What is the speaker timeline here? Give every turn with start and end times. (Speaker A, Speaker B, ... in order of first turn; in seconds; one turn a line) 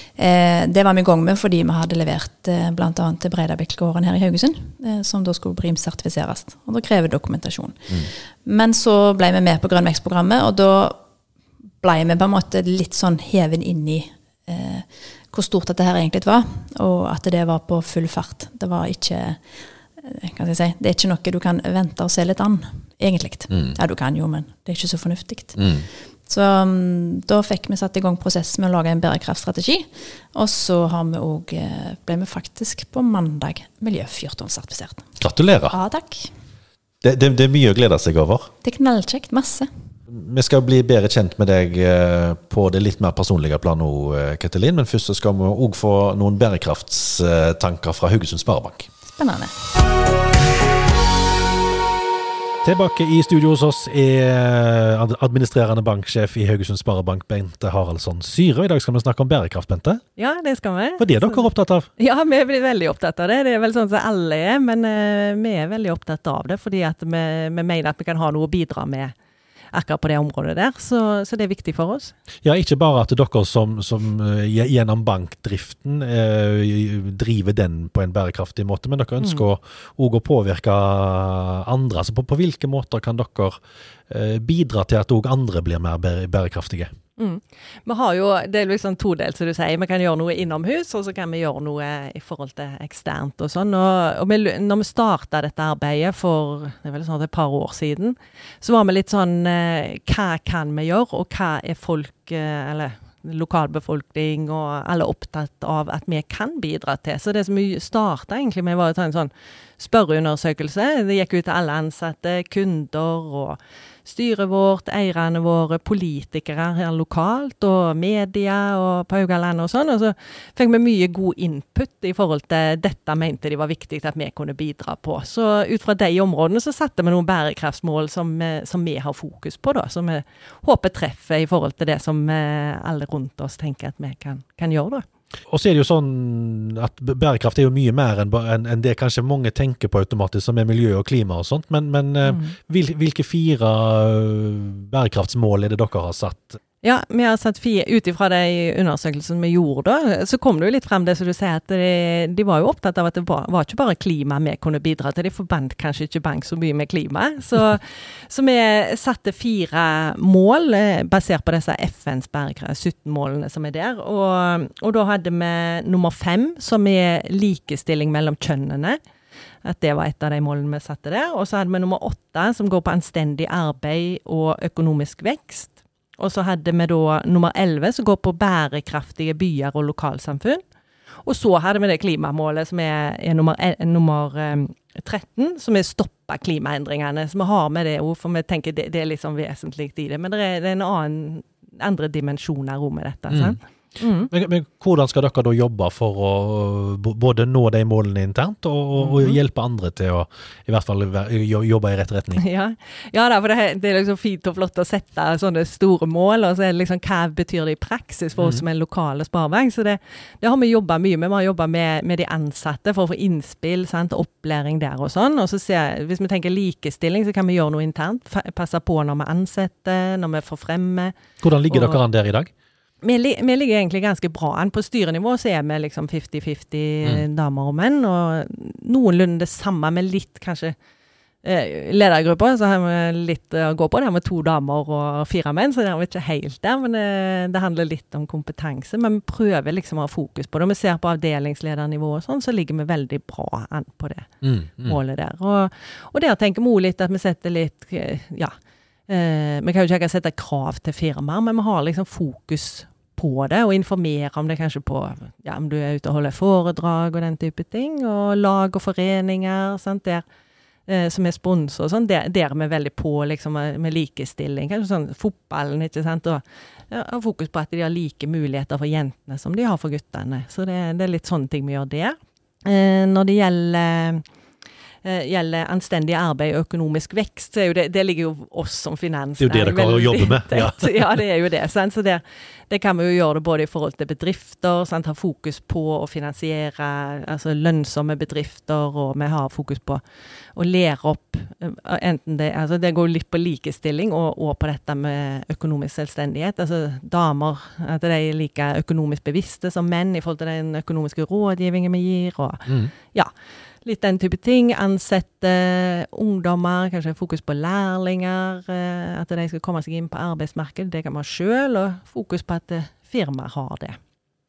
Speaker A: 0.1-11.0
Speaker A: 11.8-19.4
Speaker A: 20.0-25.6
Speaker B: 23.5-23.8
Speaker B: 25.6-25.9
Speaker A: 26.3-35.0
Speaker B: 35.2-35.8
Speaker A: 35.7-36.3
Speaker B: 37.0-38.5
Speaker A: 38.6-39.7
Speaker B: 40.1-48.9
Speaker A: 49.1-49.5
Speaker B: 52.6-60.0
Speaker C: 60.2-69.1
Speaker B: 61.0-61.9
Speaker C: 69.7-72.1
Speaker B: 72.4-83.6
Speaker B: 84.1-86.9
Speaker C: 87.2-135.0
Speaker B: 135.5-146.6
Speaker C: 142.2-142.5
Speaker C: 146.8-169.0
Speaker C: 169.6-180.6
Speaker C: 181.2-194.3
Speaker B: 193.3-193.6
Speaker B: 194.3-202.4
Speaker C: 199.0-199.4
Speaker C: 202.4-221.1
Speaker B: 208.4-208.6
Speaker B: 221.4-222.5
Speaker C: 221.7-222.0
Speaker C: 223.0-230.7
Speaker C: 231.4-244.3
Speaker B: 244.4-245.0
Speaker C: 244.8-248.5
Speaker C: 249.1-260.2
Speaker C: 260.9-274.2
Speaker C: 275.0-290.0
Speaker B: 279.4-281.2
Speaker C: 290.5-303.3
Speaker B: 302.7-302.9
Speaker C: 303.8-314.0